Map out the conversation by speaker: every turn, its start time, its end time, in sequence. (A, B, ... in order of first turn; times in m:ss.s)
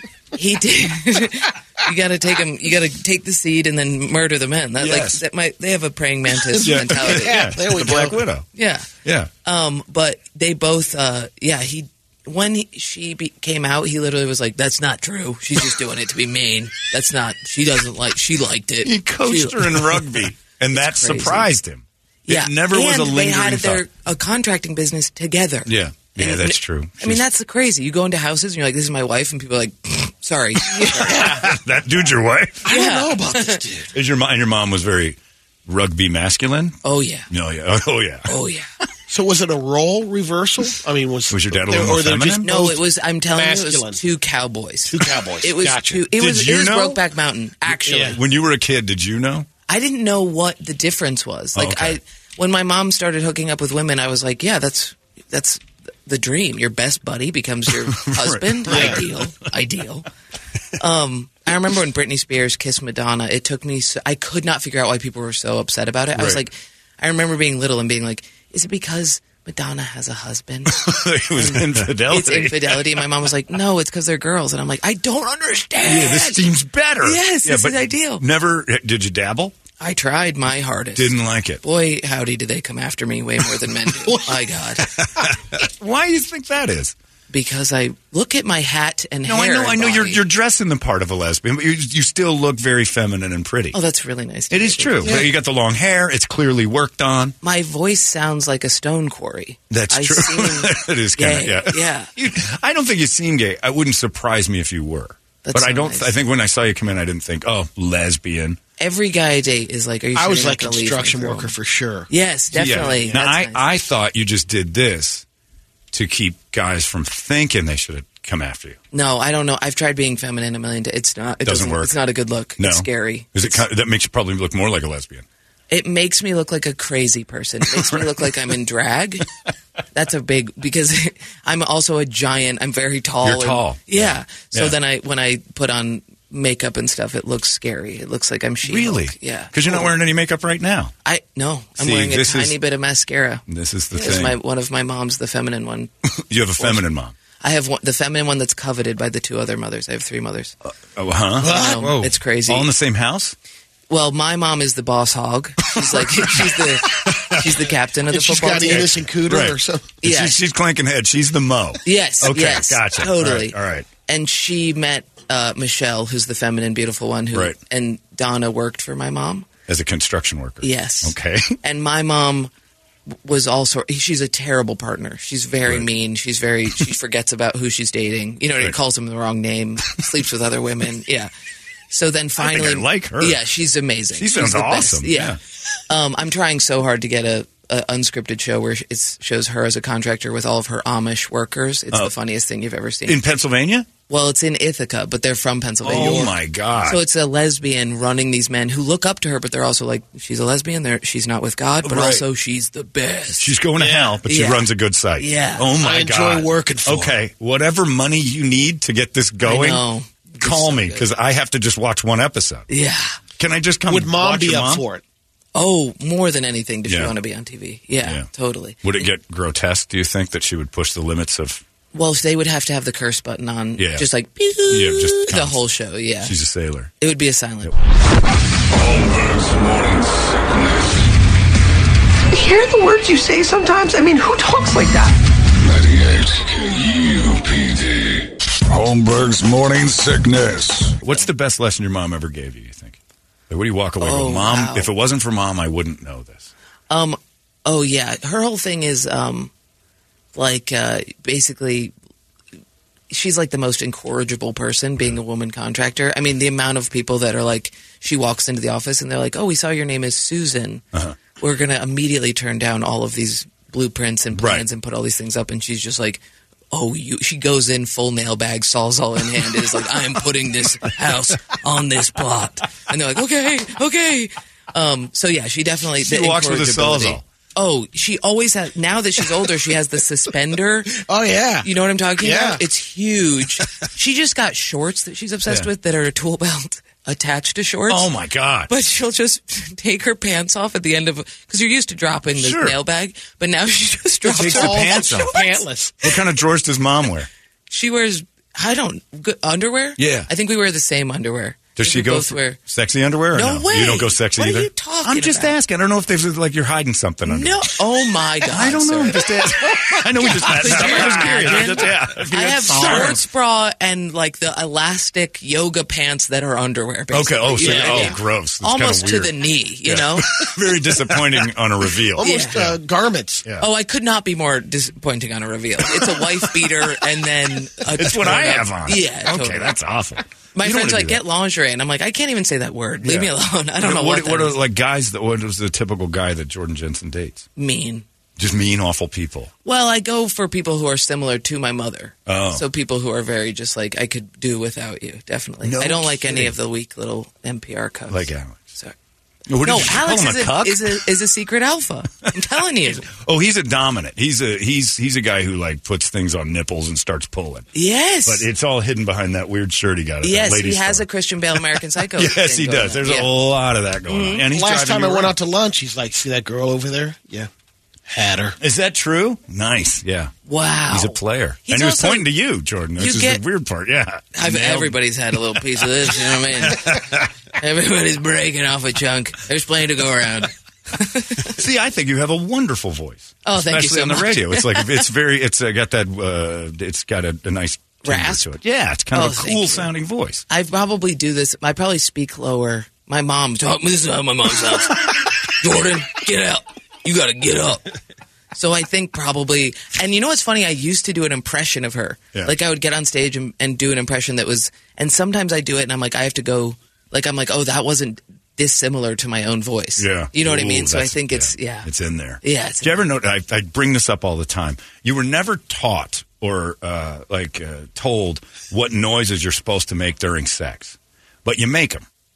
0:00.3-0:07.5 A
0:04.8-0:05.2 B
0:06.6-0:08.2 C
0:06.6-0:08.5 B
0:08.6-0:08.9 A
0:09.0-0:09.3 B
0:09.4-0:21.5 A
0:18.8-0:23.8 B
0:22.3-0:31.4 A
0:25.7-0:27.2 B
0:30.9-0:32.7 B
0:32.6-0:33.9 C
0:32.7-0:33.6 A
0:33.9-0:36.8 B
0:36.8-0:37.3 A
0:37.3-0:38.3 B
0:38.3-0:38.7 A
0:39.1-0:44.0 C
0:41.3-0:42.5 B
0:42.4-0:48.2 A
0:44.9-0:46.0 C
0:46.1-0:47.0 B
0:47.7-0:49.5 B
0:47.9-0:48.2 C
0:49.7-1:00.1 A
0:51.6-0:52.0 B
0:58.0-0:59.0 B
0:58.7-0:59.0 C
1:00.8-1:16.4 A
1:06.2-1:06.4 B
1:10.7-1:12.8 B
1:15.8-1:19.6 B
1:17.0-1:18.2 A
1:19.8-1:24.9 A
1:21.0-1:21.6 B
1:25.6-1:26.9 B
1:27.3-1:30.2 A
1:29.3-1:33.8 B
1:33.7-1:35.3 A
1:34.5-1:37.4 B
1:37.4-1:42.1 A
1:39.7-1:48.6 B
1:45.4-1:46.1 A
1:48.8-1:51.5 A
1:50.2-1:53.2 C
1:52.1-1:53.6 A
1:52.6-1:55.2 B
1:55.9-1:58.8 B
1:58.9-2:03.6 A
2:01.5-2:01.9 B
2:02.6-2:05.2 B
2:05.7-2:09.3 A
2:09.9-2:19.9 A
2:13.2-2:14.8 B
2:18.6-2:20.9 B
2:21.0-2:25.9 A
2:21.8-2:22.6 B
2:23.5-2:24.4 B
2:26.2-2:27.1 B
2:26.6-2:26.8 A
2:27.4-2:30.6 A
2:30.7-2:33.4 B
2:31.4-2:32.0 C
2:31.4-2:32.7 A
2:33.9-2:39.0 A
2:35.8-2:37.5 B
2:38.1-2:40.0 C
2:38.7-2:43.9 B
2:40.0-2:40.4 A
2:41.8-2:49.5 A
2:49.7-2:51.6 B
2:50.6-2:52.5 A
2:53.2-3:01.3 A
3:01.9-3:05.4 A
3:02.4-3:03.4 B
3:04.2-3:05.4 B
3:05.9-3:13.2 A
3:13.1-3:13.9 B
3:14.1-3:16.3 A
3:15.8-3:17.0 B
3:15.9-3:16.3 C
3:16.8-3:23.6 A
3:21.8-3:22.2 B
3:23.4-3:29.8 B
3:23.8-3:24.2 C
3:24.3-3:25.7 A
3:25.8-3:27.2 C
3:29.4-3:31.1 A
3:30.4-3:32.7 B
3:32.7-3:33.2 A
3:33.4-3:34.8 B
3:33.9-3:35.0 C
3:35.6-3:38.8 A
3:36.9-3:37.1 B
3:38.8-3:41.6 B
3:41.9-3:46.3 A
3:43.8-3:44.0 B
3:44.7-3:45.6 B
3:46.2-3:46.9 B
3:47.0-3:47.7 A
3:48.7-3:51.1 D
3:52.3-3:55.2 E
3:55.5-4:01.0 D
4:01.0-4:03.0 B
4:03.5-4:06.5 B
4:04.0-4:04.9 A
4:06.9-4:09.5 A
4:10.4-4:11.9 A
4:13.1-4:20.8 A
4:21.4-4:26.2 A
4:24.3-4:24.6 B
4:26.7-4:41.0 A
4:36.0-4:37.2 B
4:41.1-4:41.7 C
4:41.6-4:48.1 A
4:42.2-4:42.6 C
4:47.9-4:48.7 B
4:48.7-4:56.2 A
4:52.4-4:52.8 B
4:54.3-4:55.3 B
4:54.3-4:56.0 C
4:56.0-4:57.3 B
4:57.7-5:02.6 A
5:00.0-5:00.3 B
5:01.8-5:07.6 B
5:03.3-5:05.6 A
5:07.2-5:09.5 A
5:08.5-5:13.2 B
5:10.2-5:20.4 A
5:10.4-5:11.7 C
5:12.7-5:13.1 C
5:17.1-5:19.3 B
5:17.6-5:18.2 C
5:19.9-5:22.8 B
5:22.2-5:23.4 C
5:22.2-5:22.6 A
5:23.6-5:29.7 A
5:28.0-5:31.2 B
5:30.6-5:34.6 A
5:33.0-5:37.5 B
5:37.6-5:38.0 A
5:38.4-5:39.5 B
5:39.6-5:48.9 A
5:42.3-5:42.6 B
5:45.6-5:46.5 B
5:48.1-5:48.7 B
5:49.5-5:51.0 B
5:49.6-5:53.1 A
5:53.1-5:57.7 B
5:57.7-5:58.5 A
5:58.3-6:01.0 B
6:00.2-6:03.3 A
6:02.2-6:05.3 B
6:04.1-6:04.4 A
6:04.5-6:07.5 C
6:08.1-6:08.6 C
6:08.6-6:10.3 B
6:10.5-6:12.3 A
6:10.9-6:15.0 B
6:13.0-6:13.4 A
6:14.4-6:17.0 A
6:16.6-6:17.3 B
6:17.6-6:21.6 A
6:21.5-6:30.4 B
6:23.5-6:25.1 A
6:28.0-6:28.6 A
6:29.1-6:29.9 A
6:30.5-6:37.8 A
6:38.5-6:51.9 A
6:50.0-7:02.1 B
6:52.4-6:53.1 A